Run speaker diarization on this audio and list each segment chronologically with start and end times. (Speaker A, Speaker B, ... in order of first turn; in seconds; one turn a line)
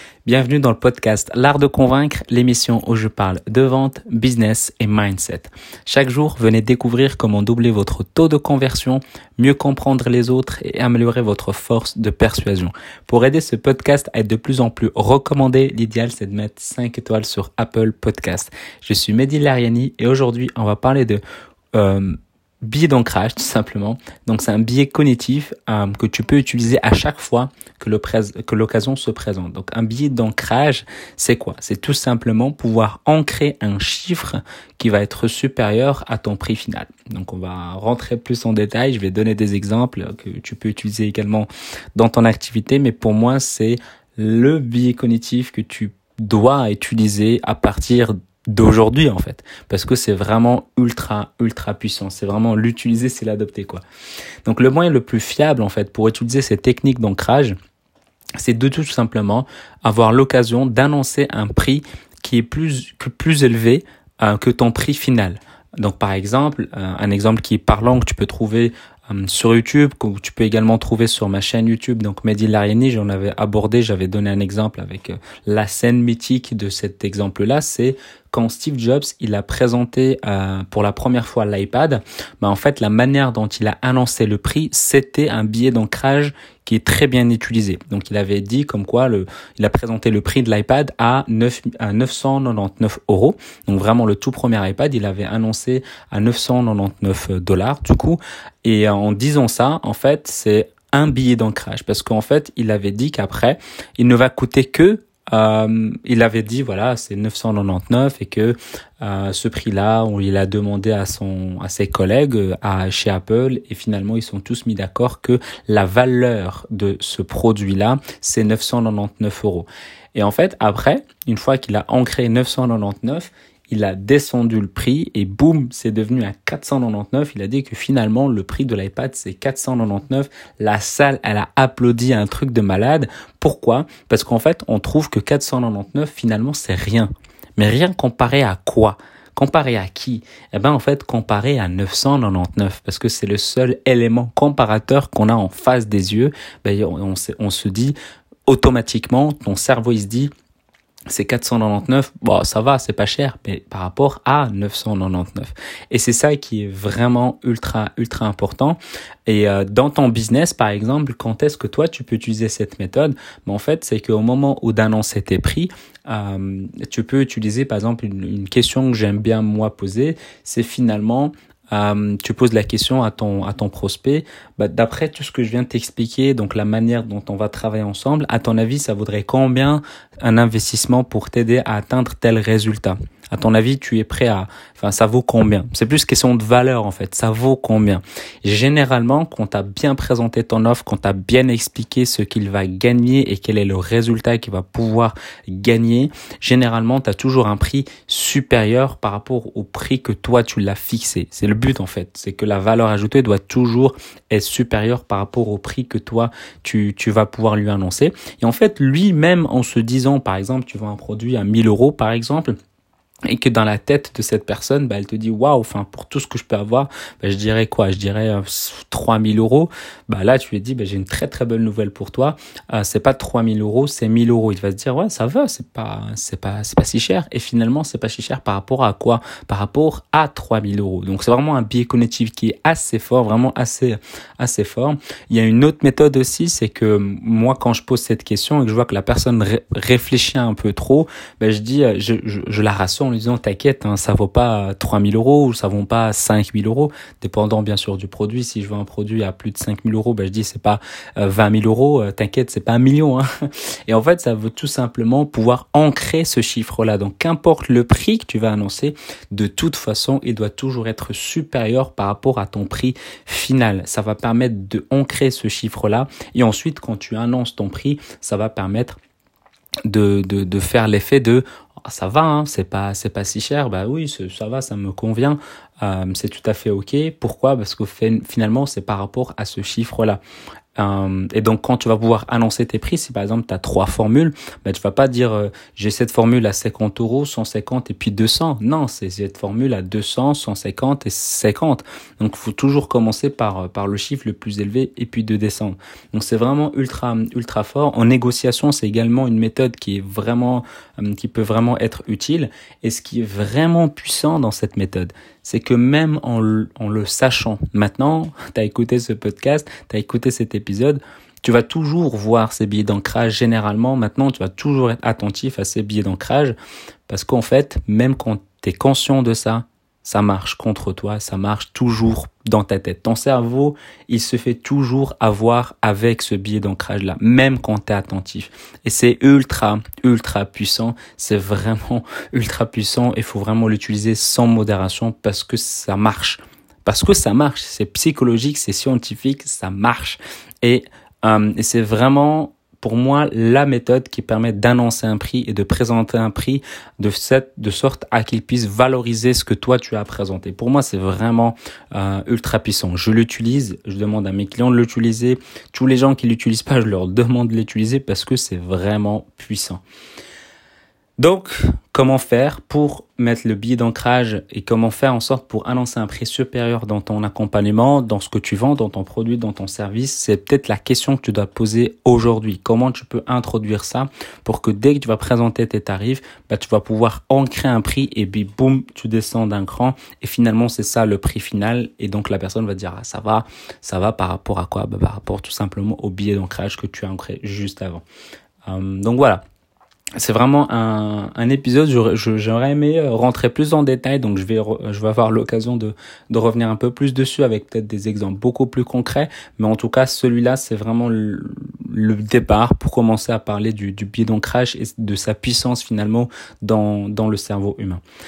Speaker A: 0.2-21.2
Speaker A: 21.7-53.8
Speaker A: 54.5-57.5
Speaker A: 58.4-147.9
Speaker A: 148.5-150.3
Speaker A: 151.1-212.6
Speaker A: 213.3-253.2
Speaker A: 253.9-269.0
Speaker A: 269.9-280.2
Speaker A: 280.8-316.5
Speaker A: 317.1-359.8
Speaker A: 361.2-388.0
Speaker A: 388.7-389.4
Speaker A: 390.2-408.0